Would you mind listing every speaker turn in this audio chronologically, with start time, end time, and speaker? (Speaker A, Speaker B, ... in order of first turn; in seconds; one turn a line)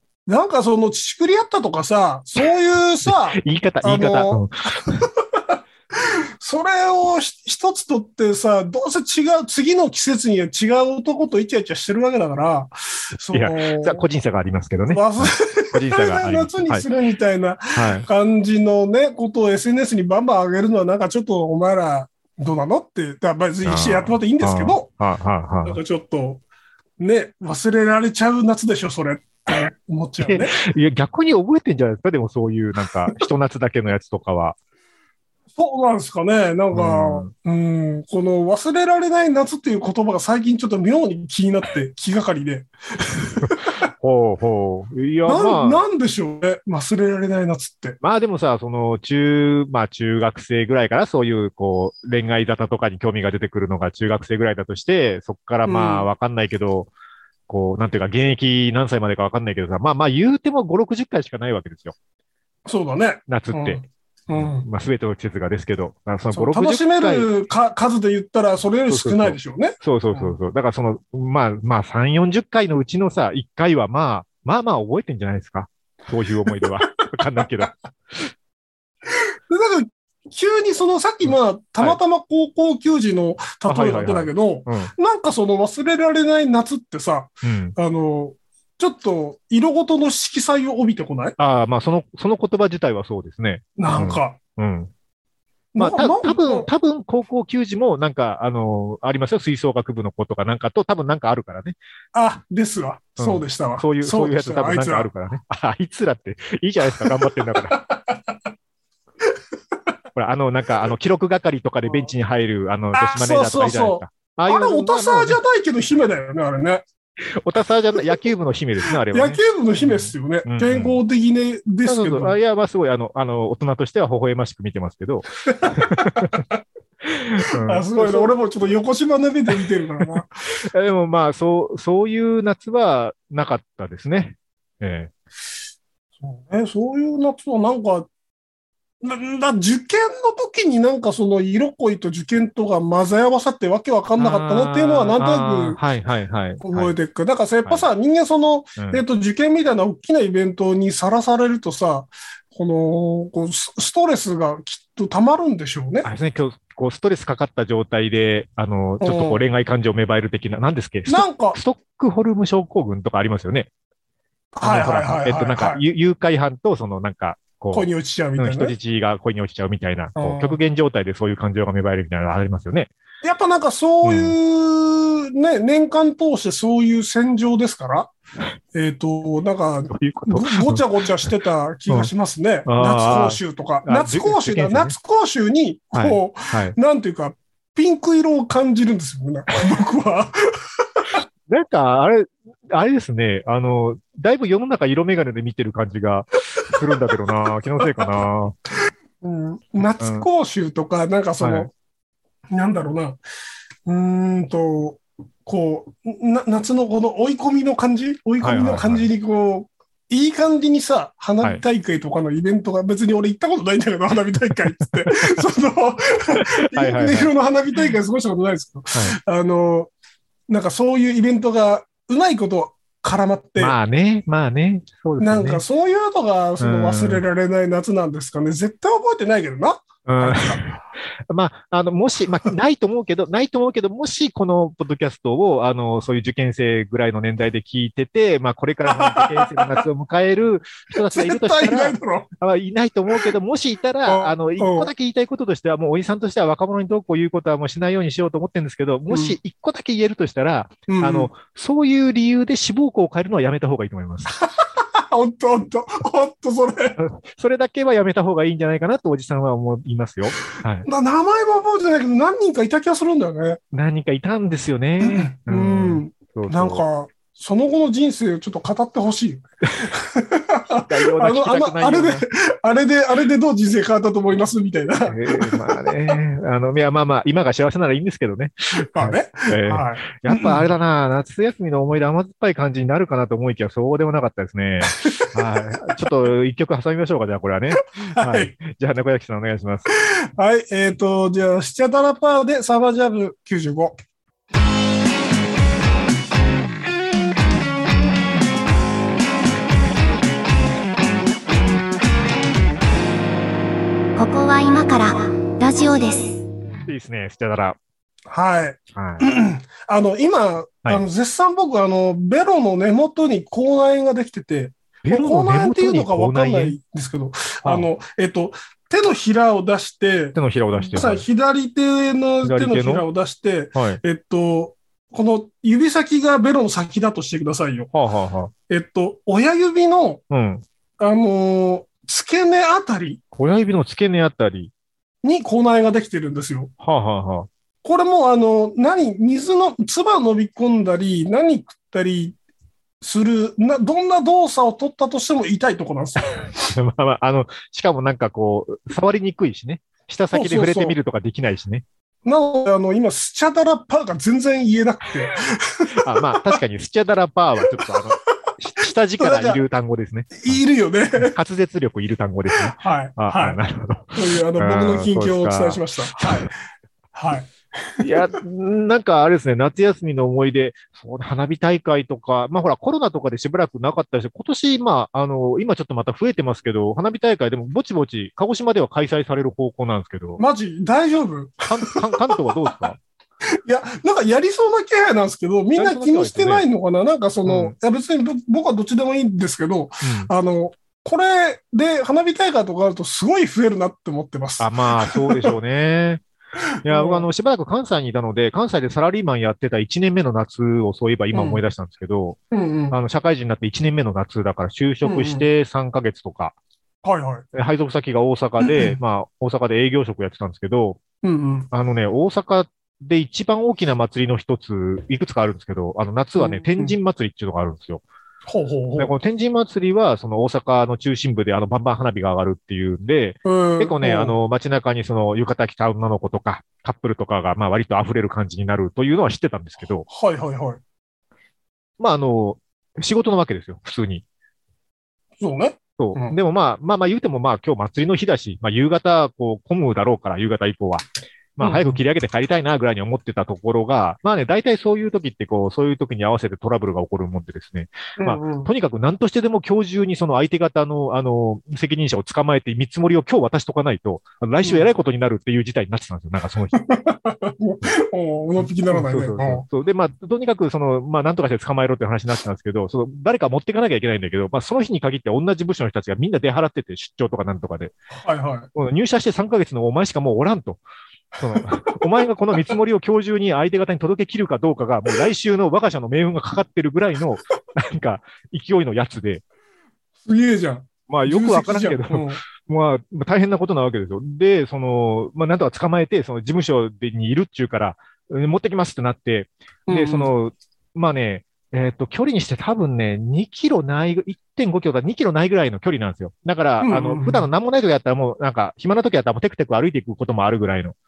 Speaker A: 0.3-14.0
Speaker B: 3.0-5.1
Speaker B: 13.3-16.9
Speaker A: 14.9-24.9
Speaker B: 17.7-18.1
Speaker B: 23.6-25.8
Speaker A: 25.6-26.4
Speaker A: 27.0-30.5
Speaker B: 30.2-34.5
Speaker A: 35.5-43.7
Speaker B: 36.7-37.3
Speaker B: 43.4-45.8
Speaker A: 45.3-48.0
Speaker B: 48.0-56.9
Speaker A: 55.6-56.1
Speaker B: 57.5-61.9
Speaker A: 62.6-64.7
Speaker B: 63.3-67.3
Speaker A: 66.3-70.3
Speaker B: 68.9-78.3
Speaker A: 79.1-91.3
Speaker B: 81.2-82.0
Speaker B: 83.7-84.9
Speaker B: 87.4-87.8
Speaker B: 91.4-94.9
Speaker A: 93.8-94.4
Speaker A: 95.7-96.7
Speaker B: 95.8-101.8
Speaker A: 102.1-105.1
Speaker B: 103.2-107.8
Speaker A: 107.0-108.3
Speaker B: 110.1-115.4
Speaker A: 112.9-116.8
Speaker B: 117.4-121.0
Speaker A: 118.9-122.3
Speaker B: 121.8-126.4
Speaker A: 125.5-126.6
Speaker B: 127.0-128.3
Speaker A: 127.6-130.3
Speaker B: 130.0-135.1
Speaker A: 136.2-138.1
Speaker A: 139.0-145.8
Speaker B: 144.2-146.9
Speaker A: 146.6-156.1
Speaker B: 148.8-149.0
Speaker B: 156.0-163.7
Speaker A: 159.0-159.4
Speaker A: 161.1-161.6
Speaker A: 164.5-165.8
Speaker B: 164.6-172.9
Speaker A: 167.7-168.7
Speaker A: 170.2-170.6
Speaker A: 173.2-178.1
Speaker B: 174.0-174.3
Speaker A: 178.7-190.4
Speaker B: 179.9-180.8
Speaker B: 182.7-184.9
Speaker B: 185.9-186.8
Speaker B: 191.5-198.6
Speaker A: 197.8-198.1
Speaker A: 199.2-201.7
Speaker B: 200.0-200.3
Speaker B: 201.4-201.7
Speaker A: 202.5-203.2
Speaker A: 203.8-219.9
Speaker B: 208.4-209.1
Speaker B: 215.1-215.4
Speaker B: 216.3-217.3
Speaker A: 220.5-223.8
Speaker B: 223.6-225.6
Speaker A: 225.2-230.8
Speaker B: 226.6-227.2
Speaker B: 230.1-230.7
Speaker B: 231.3-254.3
Speaker A: 238.9-239.8
Speaker A: 241.1-242.3
Speaker A: 244.1-244.9
Speaker A: 249.1-249.4
Speaker A: 250.9-251.3
Speaker A: 254.4-257.0
Speaker B: 257.0-260.9
Speaker A: 260.9-263.6
Speaker B: 263.7-266.8
Speaker A: 265.0-276.1
Speaker B: 270.8-272.2
Speaker B: 275.1-289.9
Speaker A: 278.9-280.6
Speaker A: 285.0-285.9
Speaker A: 288.1-288.5
Speaker A: 290.1-293.9
Speaker C: 304.1-306.4
Speaker B: 306.9-307.8
Speaker A: 308.3-327.9
Speaker B: 308.9-309.3
Speaker B: 315.0-316.8
Speaker B: 320.3-321.2
Speaker B: 322.4-323.0
Speaker B: 323.7-324.0
Speaker B: 327.9-328.5
Speaker A: 328.7-330.2
Speaker B: 330.3-330.6
Speaker A: 331.0-333.2
Speaker B: 333.3-334.7
Speaker A: 335.2-336.7
Speaker B: 336.8-337.5
Speaker A: 337.8-342.4
Speaker A: 343.0-346.5
Speaker B: 346.6-351.8
Speaker A: 350.3-351.0
Speaker A: 352.2-356.6
Speaker B: 355.9-360.6
Speaker A: 359.2-359.6
Speaker A: 360.4-361.3
Speaker B: 361.2-366.4
Speaker A: 362.6-363.6
Speaker A: 364.1-366.5
Speaker A: 367.1-368.2
Speaker B: 368.0-380.4
Speaker A: 380.4-382.8
Speaker B: 381.6-383.0
Speaker A: 383.6-395.6
Speaker B: 385.7-386.6
Speaker B: 387.4-387.7
Speaker B: 390.0-390.3
Speaker B: 394.6-396.2
Speaker B: 396.8-402.4
Speaker A: 396.9-397.3
Speaker A: 401.3-401.6
Speaker A: 402.5-402.9
Speaker B: 402.9-406.5
Speaker A: 405.0-405.4
Speaker A: 407.0-407.4
Speaker B: 407.5-411.0
Speaker A: 408.6-409.0
Speaker A: 411.2-411.7
Speaker B: 411.7-418.0
Speaker A: 416.4-416.9
Speaker A: 418.5-419.1
Speaker B: 419.0-430.1
Speaker A: 423.4-424.4
Speaker A: 430.1-430.8
Speaker B: 432.0-434.2
Speaker A: 435.4-436.4
Speaker B: 436.0-441.0
Speaker B: 441.6-456.8
Speaker A: 441.6-442.0
Speaker A: 448.2-448.7
Speaker A: 456.7-459.6
Speaker B: 458.6-467.9
Speaker A: 468.1-468.7
Speaker B: 468.7-470.8
Speaker B: 471.4-479.4
Speaker A: 480.2-482.4
Speaker B: 481.1-500.9
Speaker A: 489.9-490.3
Speaker A: 496.8-497.5